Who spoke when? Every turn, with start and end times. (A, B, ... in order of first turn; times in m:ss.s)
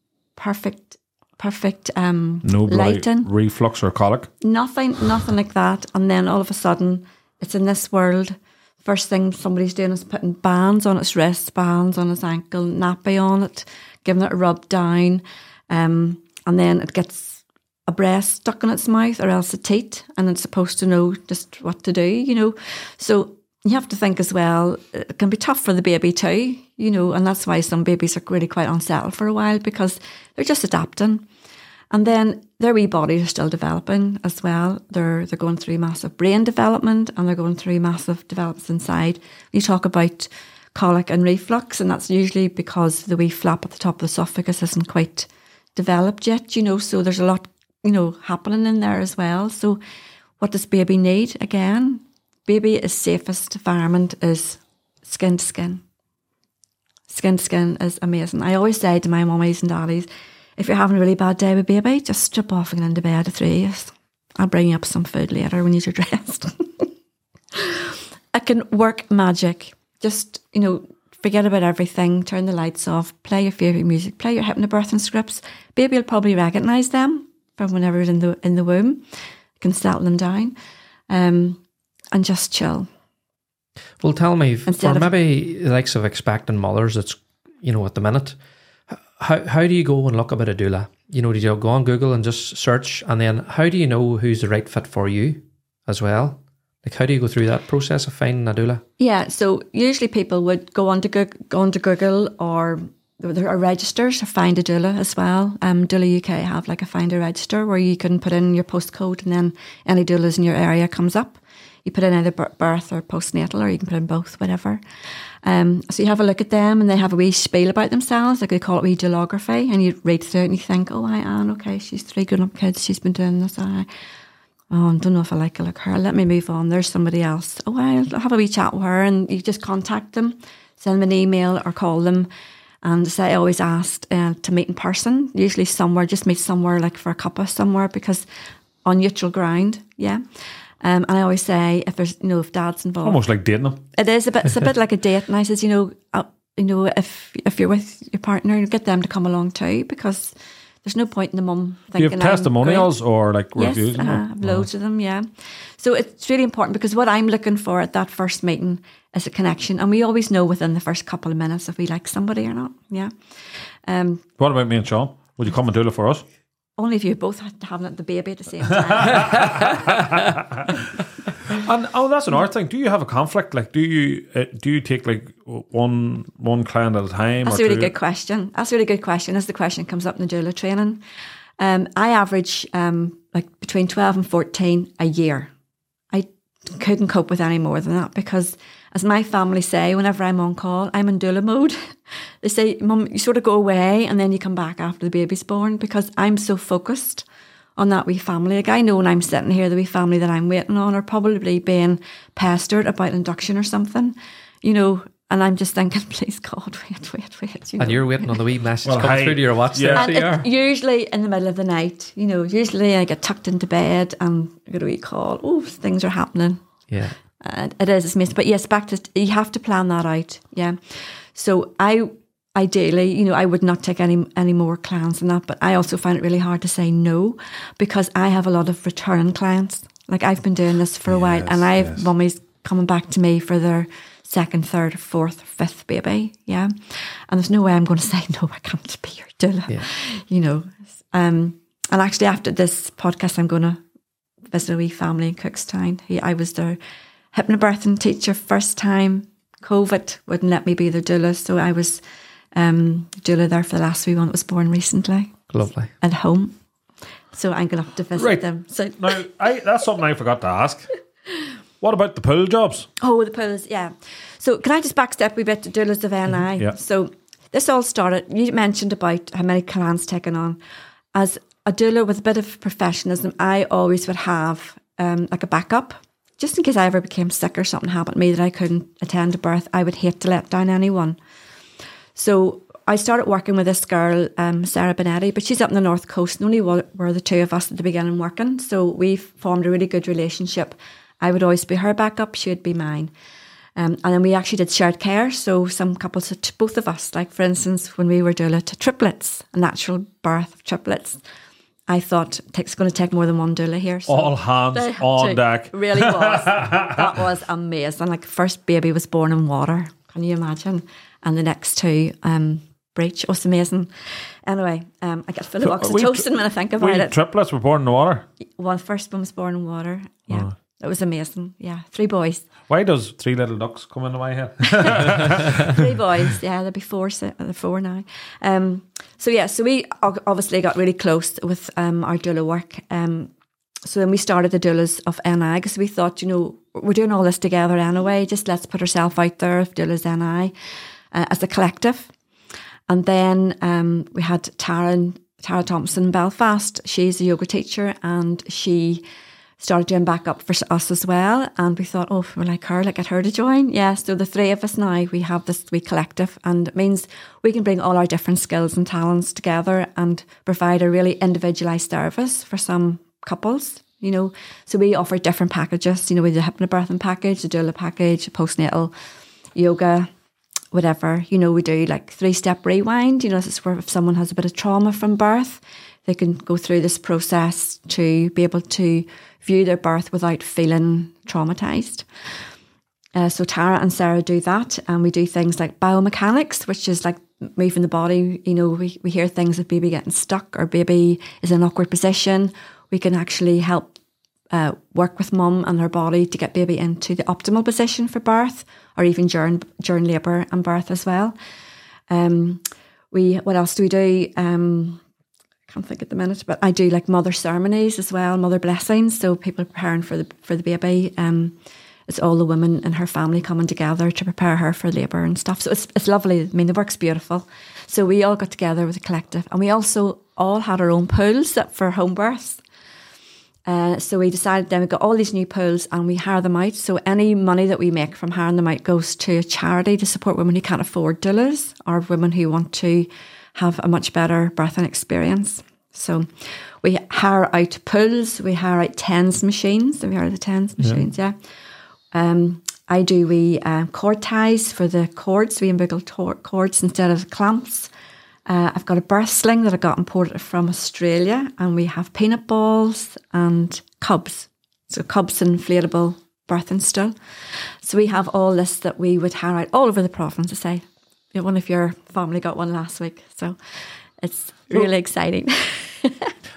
0:00.4-0:03.3 A
0:02.4-0:04.3 B
0:04.4-0:31.2 A
0:31.9-0:49.8 A
0:50.4-0:55.8 A
0:57.1-1:06.9 A
1:07.5-1:19.0 A
1:19.6-1:20.5 A
1:21.1-1:21.6 A
1:22.1-1:22.9 A
1:24.0-1:28.4 C
1:24.6-1:25.1 A
1:28.9-1:38.8 C
1:39.0-1:54.8 A
1:55.4-2:03.9 A
2:04.7-2:12.3 A
2:12.8-2:18.2 A
2:18.8-2:20.2 A
2:20.8-2:23.2 A
2:23.0-2:23.8 B
2:23.9-2:32.9 A
2:32.0-2:34.7 B
2:33.6-2:43.1 A
2:43.8-2:44.2 A
2:44.4-2:46.2 B
2:46.8-2:50.1 A
2:48.7-2:50.7 B
2:51.5-2:57.9 B
2:57.4-3:01.0 A
3:01.6-3:05.5 A
3:06.1-3:17.2 A
3:17.8-3:28.4 A
3:27.8-3:30.5 C
3:28.8-3:30.1 B
3:29.9-3:36.6 A
3:36.9-3:37.2 C
3:37.4-4:03.8 A
3:51.1-3:52.0 B
4:04.5-4:06.8 A
4:07.3-4:12.0 A
4:12.5-4:15.5 A
4:15.5-4:15.9 C
4:16.0-4:16.5 A
4:17.3-4:19.2 A
4:18.1-4:18.4 B
4:19.0-4:20.9 B
4:21.8-4:22.9 B
4:23.0-4:30.6 A
4:31.1-4:41.2 A
4:42.2-4:53.1 A
4:53.8-5:01.2 A
5:01.9-5:17.2 A
5:04.1-5:07.2 B
5:15.6-5:16.3 B
5:16.8-5:18.3 B
5:18.6-5:22.5 A
5:22.7-5:26.3 B
5:24.7-5:33.3 A
5:33.8-5:40.5 A
5:41.1-5:42.1 A
5:42.9-5:49.0 A
5:49.6-6:08.9 A
6:09.5-6:10.1 A
6:10.7-6:22.0 A
6:23.1-6:34.0 A
6:34.5-6:41.3 A
6:42.1-6:45.0 A
6:45.7-6:51.5 A
6:52.1-7:02.6 A
7:03.6-7:21.4 A
7:20.8-7:21.0 B
7:22.1-7:27.9 A
7:28.5-7:37.1 A
7:37.8-7:46.3 A